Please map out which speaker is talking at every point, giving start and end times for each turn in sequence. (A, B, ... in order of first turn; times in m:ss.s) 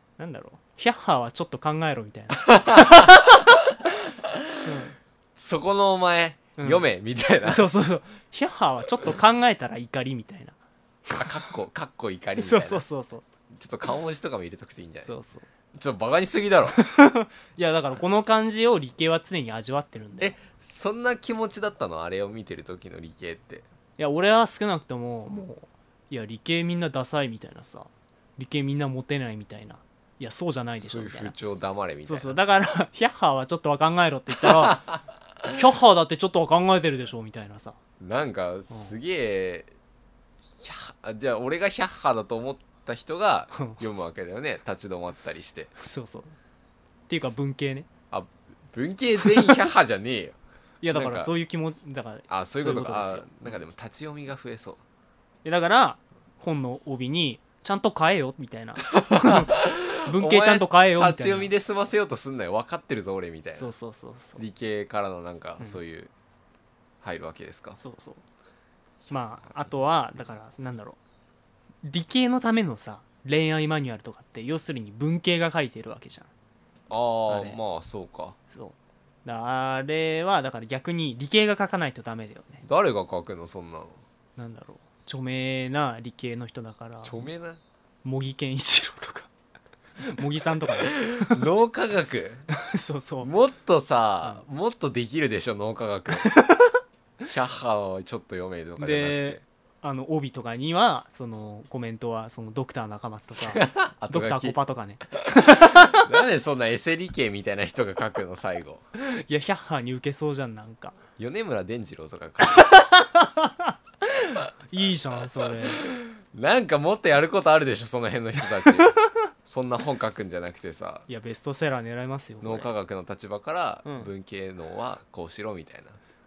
0:00.2-0:03.6 A
0:02.4-0:04.8 B
0:04.6-0:05.0 A
0:05.4-0:07.7 B
0:06.6-0:06.8 A
0:07.4-0:11.5 A
0:11.1-0:12.8 B
0:12.4-0:13.2 A
0:13.5-0:15.1 B
0:15.0-0:15.4 A
0:15.7-0:16.8 B
0:16.7-0:20.4 A
0:20.2-0:23.6 B
0:24.0-0:31.3 A
0:30.8-0:32.4 B
0:32.0-0:34.8 A
0:34.4-0:35.5 B
0:35.5-0:37.8 A
0:38.0-0:39.7 B
0:40.6-0:45.7 B
0:43.5-0:43.8 A
0:45.8-0:46.3 A
0:47.1-0:47.9 A
0:48.1-0:50.4 B
0:49.2-0:49.7 A
0:50.8-0:53.6 A
0:50.9-0:51.3 B
0:52.3-0:54.8 B
0:55.4-1:01.5 A
0:58.9-1:03.7 B
1:03.6-1:04.4 A
1:04.4-1:06.1 B
1:07.0-1:07.8 B
1:07.8-1:08.2 A
1:09.1-1:11.0 A
1:11.8-1:16.3 A
1:16.9-1:18.4 B
1:17.3-1:17.6 A
1:18.5-1:22.6 A
1:22.6-1:24.0 B
1:24.4-1:27.2 A
1:27.0-1:27.6 B
1:28.0-1:29.3 A
1:30.0-1:31.5 A
1:30.7-1:32.4 B
1:32.6-1:33.3 A
1:33.2-1:36.4 B
1:36.1-1:36.8 A
1:37.3-1:39.4 B
1:38.8-1:46.1 A
1:43.4-1:44.6 B
1:45.3-1:48.8 B
1:49.0-1:51.0 A
1:51.2-1:52.7 B
1:52.4-1:55.9 A
1:55.5-2:01.0 B
1:58.6-1:59.1 A
2:01.1-2:02.7 A
2:02.4-2:06.0 B